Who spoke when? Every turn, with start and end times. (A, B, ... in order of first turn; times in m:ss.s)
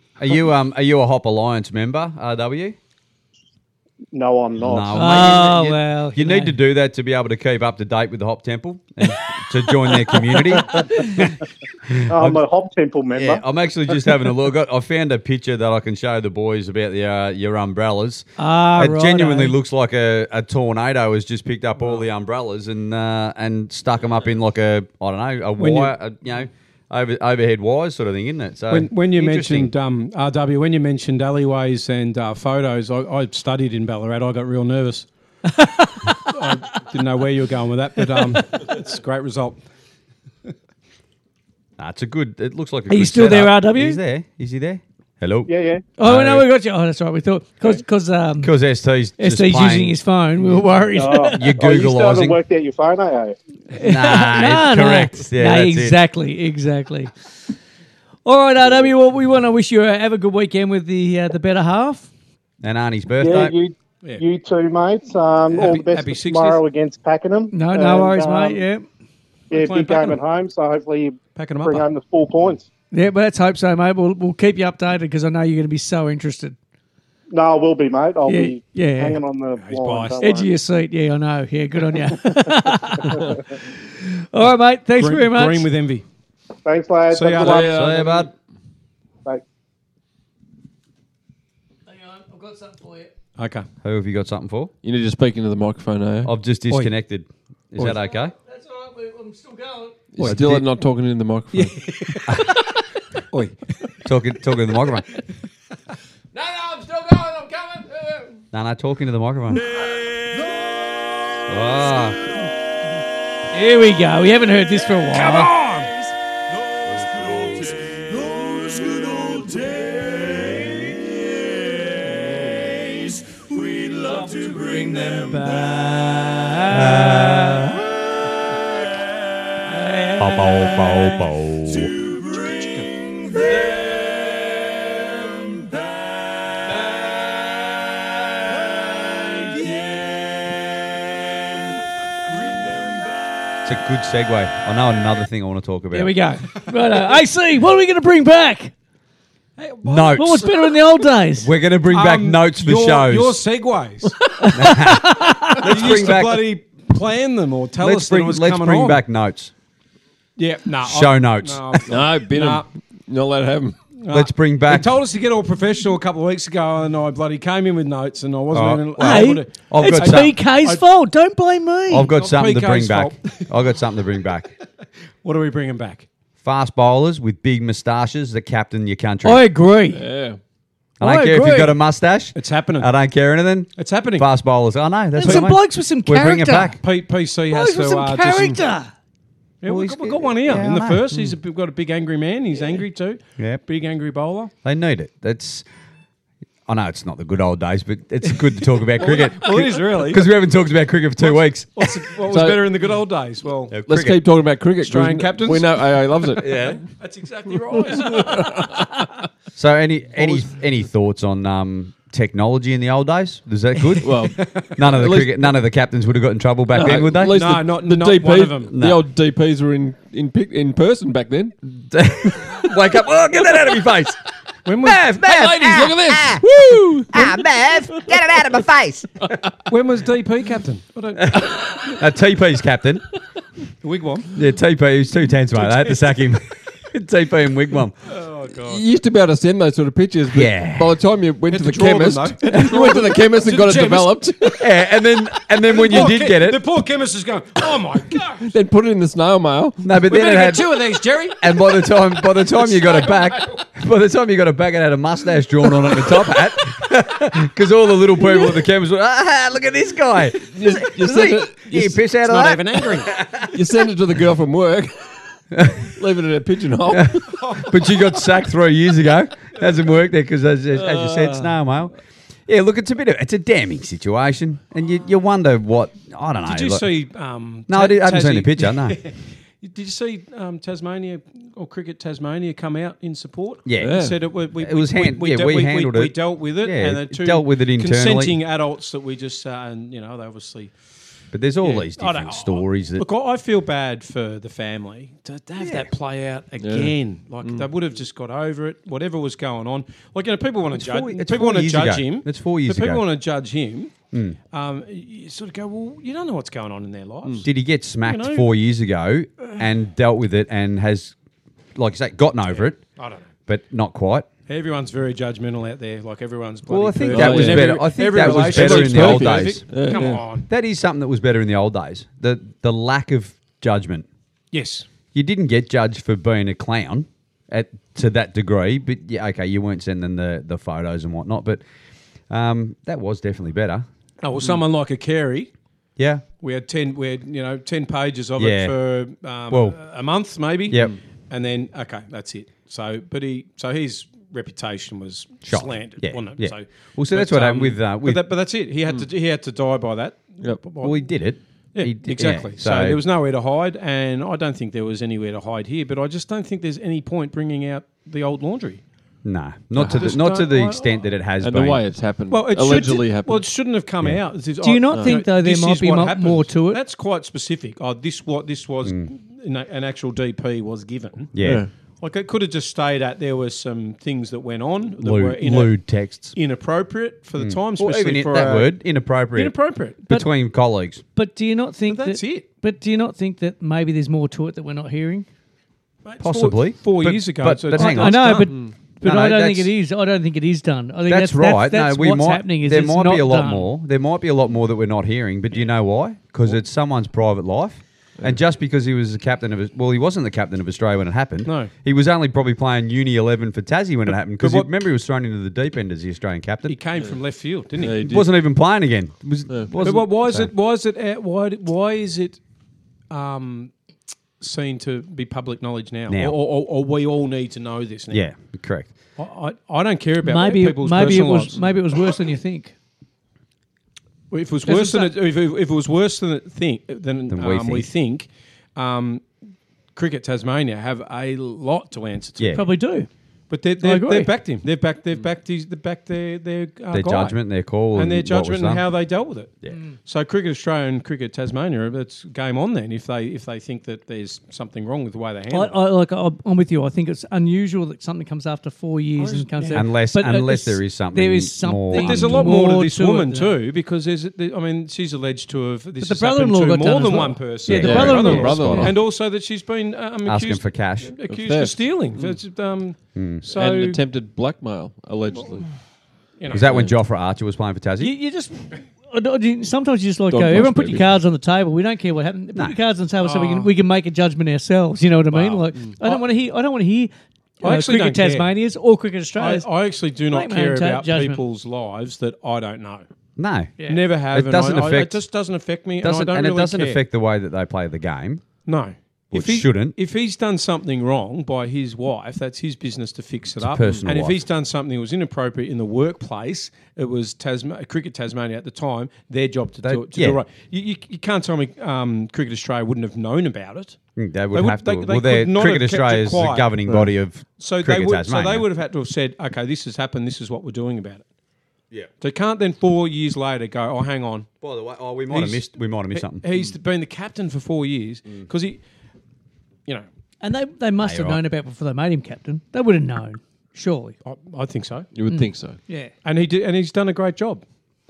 0:00.2-0:02.8 A
0:04.1-0:05.0 B
0:04.6-0:11.4 A
0:04.9-0:06.6 C
0:10.7-0:11.2 C
0:11.9-0:12.4 A
0:12.1-0:13.4 B
0:13.1-0:29.7 A
0:18.4-0:19.6 C
0:25.6-0:25.9 D
0:28.7-0:35.1 D
0:35.5-0:36.4 C
0:36.3-0:39.6 D
0:41.8-0:45.5 A
0:42.9-0:44.0 C
0:45.5-0:45.9 B
0:46.0-0:48.5 C
0:46.0-0:46.5 A
0:48.4-0:50.0 A
0:49.2-0:51.5 C
0:50.9-0:53.4 B
0:51.4-0:52.4 A
0:53.7-0:57.1 C
0:53.8-0:56.0 A
0:58.2-1:02.1 C
1:02.6-1:03.6 A
1:03.2-1:08.6 B
1:05.5-1:06.6 D
1:07.5-1:08.8 C
1:09.5-1:12.7 B
1:09.5-1:10.2 D
1:11.4-1:11.8 D
1:12.9-1:16.6 C
1:17.3-1:20.5 B
1:18.3-1:19.2 C
1:19.6-1:20.2 D
1:20.2-1:25.7 C
1:25.0-1:26.0 D
1:26.6-1:27.8 B
1:27.1-1:27.7 D
1:27.4-1:28.3 E
1:27.5-1:28.3 A
1:31.9-1:33.1 C
1:33.4-1:33.7 D
1:33.8-1:34.7 A
1:34.8-1:36.3 E
1:36.2-1:38.3 A
1:38.3-1:40.1 C
1:40.1-1:41.8 E
1:40.2-1:40.6 D
1:40.2-1:40.7 A
1:41.5-1:42.4 D
1:43.3-1:43.6 D
1:44.0-1:45.1 A
1:46.4-1:48.3 E
1:48.5-1:49.6 A
1:51.5-1:52.2 A
1:53.5-1:55.5 C
1:55.1-1:56.1 D
1:56.8-1:57.8 A
1:58.4-2:00.5 D
2:04.0-2:07.7 C
2:06.7-2:07.8 A
2:09.6-2:11.2 C
2:10.2-2:12.0 A
2:12.0-2:12.9 D
2:19.4-2:20.0 D
2:23.6-2:26.1 A
2:25.9-2:28.7 C
2:29.6-2:30.6 D
2:29.8-2:30.5 A
2:30.1-2:31.5 C
2:31.4-2:33.4 A
2:31.9-2:34.2 D
2:34.4-2:35.6 C
2:34.5-2:36.5 A
2:35.6-2:39.0 D
2:37.8-2:39.5 A
2:40.4-2:42.7 D
2:40.8-2:41.8 A
2:41.9-2:43.8 E
2:44.0-2:50.8 D
2:44.1-2:45.0 A
2:48.5-2:50.4 A
2:49.0-2:52.1 C
2:51.9-2:54.5 A
2:52.1-2:53.4 D
2:55.2-2:56.1 D
2:56.4-2:59.5 A
2:59.2-3:00.0 C
2:59.9-3:00.4 E
3:01.0-3:01.8 C
3:01.0-3:06.8 A
3:02.4-3:02.9 D
3:03.8-3:04.3 D
3:05.1-3:06.8 C
3:05.2-3:05.5 D
3:06.8-3:08.6 D
3:07.5-3:08.9 C
3:09.6-3:14.5 D
3:09.6-3:11.3 A
3:14.6-3:15.6 A
3:16.7-3:22.0 A
3:19.0-3:20.3 D
3:21.2-3:23.8 D
3:22.3-3:22.7 E
3:23.7-3:24.2 A
3:23.9-3:26.8 E
3:24.8-3:28.8 D
3:26.4-3:26.8 A
3:28.0-3:28.8 E
3:29.6-3:37.4 A
3:34.0-3:35.4 E
3:34.4-3:34.9 D
3:36.7-3:41.6 E
3:37.3-3:38.8 D
3:38.7-3:39.0 A
3:41.8-3:44.2 A
3:44.7-3:45.1 D
3:44.8-3:46.5 A
3:45.2-3:47.4 E
3:47.1-3:49.3 A
3:49.7-3:51.8 D
3:51.2-3:53.0 A
3:53.8-3:54.3 D
3:54.3-3:58.0 A
3:55.6-3:56.1 D
3:58.1-3:58.8 D
3:58.6-4:04.6 E
4:00.3-4:01.0 A
4:01.5-4:04.6 D
4:02.5-4:03.0 A
4:04.6-4:06.6 A
4:05.6-4:08.5 D
4:08.5-4:09.8 E
4:09.8-4:23.5 A
4:10.0-4:13.4 D
4:20.5-4:22.0 E
4:22.2-4:23.2 D
4:23.5-4:25.0 E
4:25.5-4:25.9 A
4:26.0-4:27.3 E
4:26.9-4:31.9 A
4:27.3-4:27.9 D
4:30.8-4:31.6 E
4:32.5-4:36.9 A
4:36.5-4:50.8 D
4:37.7-4:39.0 A
4:43.7-4:48.4 A
4:43.8-4:44.2 E
4:51.3-4:53.1 A
4:51.6-5:03.9 D
4:55.6-4:55.9 A
4:56.6-4:57.7 E
5:00.7-5:03.0 A
5:04.1-5:04.4 A
5:04.5-5:07.5 D
5:07.4-5:11.1 A
5:08.0-5:08.5 D
5:11.8-5:12.8 A
5:12.5-5:13.3 D
5:13.5-5:14.3 A
5:14.5-5:20.5 D
5:16.7-5:24.1 A
5:17.1-5:20.2 E
5:24.5-5:24.9 D
5:25.1-5:31.6 A
5:32.3-5:33.9 A
5:34.2-5:35.5 D
5:36.0-5:36.2 A
5:36.4-5:51.0 D
5:38.4-5:38.8 A
5:39.5-5:39.8 A
5:40.7-5:40.9 A
5:40.7-5:41.0 E
5:45.5-5:48.3 A
5:50.8-5:53.0 A
5:51.8-5:58.8 D
5:59.2-6:01.8 A
5:59.8-6:01.0 D
5:59.8-6:00.1 E
6:01.4-6:03.5 E
6:02.3-6:11.4 D
6:04.6-6:06.8 C
6:04.9-6:05.2 E
6:11.3-6:11.6 A
6:11.4-6:11.7 E
6:12.0-6:15.8 D
6:15.0-6:16.4 A
6:16.3-6:18.7 D
6:17.4-6:21.0 A
6:19.3-6:20.0 D
6:21.2-6:25.3 C
6:21.9-6:22.4 D
6:26.0-6:28.5 D
6:26.2-6:29.7 A
6:27.7-6:33.7 C
6:31.1-6:46.8 A
6:41.4-6:41.7 D
6:44.4-6:44.7 D
6:46.7-6:48.1 D
6:47.8-6:48.3 E
6:48.0-6:50.5 A
6:49.8-6:52.4 D
6:53.1-6:53.7 D
6:54.4-6:58.3 D
6:56.1-6:56.4 A
6:58.1-6:58.9 A
6:59.2-7:01.7 D
7:00.2-7:02.7 C
7:04.3-7:09.3 D
7:04.7-7:05.1 C
7:07.3-7:07.9 A
7:09.9-7:12.6 D
7:12.4-7:12.6 A
7:12.5-7:13.1 C
7:13.5-7:17.4 D
7:13.8-7:14.3 C
7:16.9-7:18.9 A
7:17.9-7:25.8 D
7:25.5-7:33.6 C
7:29.2-7:29.9 D
7:29.7-7:32.5 A
7:31.9-7:44.0 D
7:36.0-7:39.0 C
7:37.7-7:38.9 A
7:37.7-7:39.0 E
7:40.2-7:41.2 A
7:41.3-7:42.4 E
7:43.2-7:43.4 A
7:43.5-7:45.7 E
7:46.4-7:46.8 D
7:46.5-7:48.1 A
7:46.6-7:46.9 E
7:48.0-7:59.7 C
7:50.3-7:51.2 E
7:53.2-7:53.7 D
7:55.3-7:56.2 D
7:57.6-7:58.5 D
7:59.4-8:03.0 D
8:00.3-8:01.4 C
8:03.4-8:03.7 A
8:03.8-8:04.0 C
8:03.9-8:07.0 D
8:04.3-8:05.2 A
8:06.0-8:08.4 A
8:08.6-8:24.0 D
8:09.3-8:10.0 A
8:13.6-8:14.4 A
8:19.8-8:20.4 A
8:24.2-8:28.7 A
8:24.5-8:27.0 D
8:27.6-8:31.2 D
8:32.2-8:34.5 D
8:34.6-8:36.4 A
8:35.3-8:38.8 D
8:40.4-8:44.2 C
8:41.0-8:41.4 A
8:44.2-8:45.1 D
8:45.1-8:45.8 E
8:45.3-8:46.1 C
8:46.2-8:47.6 D